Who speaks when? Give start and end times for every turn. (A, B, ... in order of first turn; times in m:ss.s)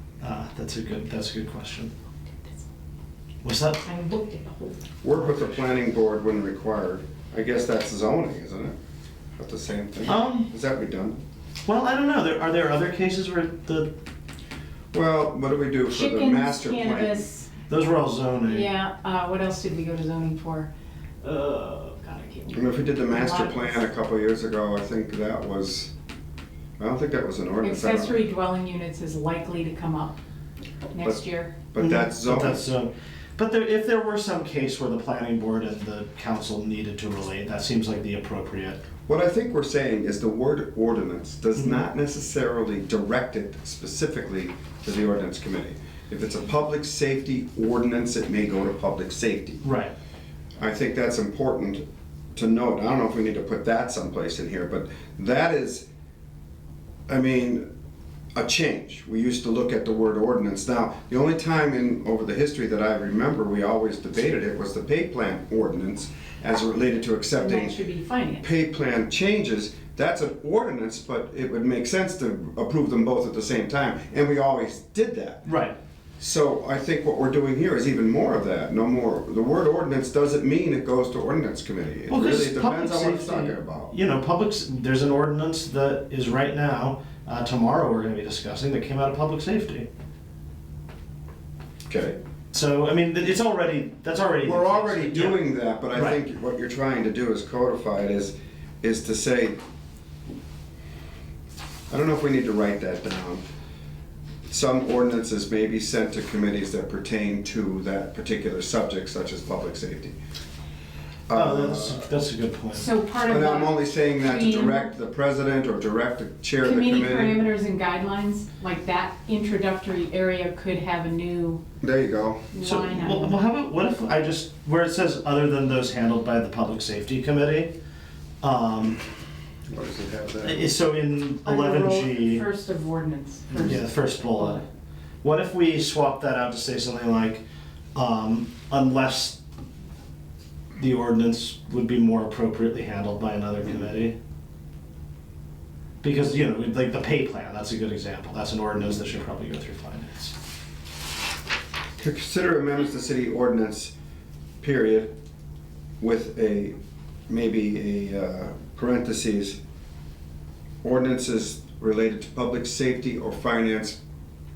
0:00.2-0:01.9 A
0:03.4-0:03.8 A
0:03.8-0:04.8 B
0:05.0-0:08.7 C
0:09.4-0:11.2 C
0:10.1-0:10.5 A
0:11.6-0:13.9 A
0:14.9-0:17.2 C
0:15.9-0:17.5 B
0:17.7-0:18.7 A
0:18.5-0:20.7 B
0:21.2-0:23.8 B
0:22.5-0:25.9 C
0:26.8-0:28.2 C
0:27.6-0:30.2 B
0:30.9-0:31.6 B
0:31.7-0:32.6 C
0:31.8-0:38.8 A
0:39.1-0:49.6 C
0:49.6-0:49.9 A
0:50.6-0:51.8 C
0:52.4-0:55.8 C
0:57.1-0:57.7 C
0:58.4-1:07.8 C
1:07.4-1:08.5 B
1:08.4-1:15.4 C
1:15.4-1:15.8 A
1:16.2-1:23.9 C
1:22.1-1:29.9 A
1:31.9-1:32.2 C
1:32.5-1:36.2 A
1:34.4-1:39.6 C
1:41.9-1:43.4 C
1:44.5-1:50.2 C
1:51.3-1:52.1 C
1:51.3-1:52.9 A
1:52.7-1:54.9 B
1:53.2-1:57.4 C
1:56.6-2:01.6 B
2:01.8-2:02.6 C
2:02.5-2:03.4 B
2:02.6-2:07.7 A
2:08.4-2:09.0 A
2:09.7-2:10.7 C
2:10.4-2:12.4 A
2:11.4-2:13.8 B
2:13.5-2:14.6 A
2:15.2-2:17.4 A
2:18.0-2:19.4 A
2:20.8-2:24.2 A
2:26.0-2:30.3 A
2:32.0-2:33.9 C
2:34.6-2:35.1 C
2:36.0-2:36.8 C
2:37.3-2:39.6 C
2:40.8-2:44.0 C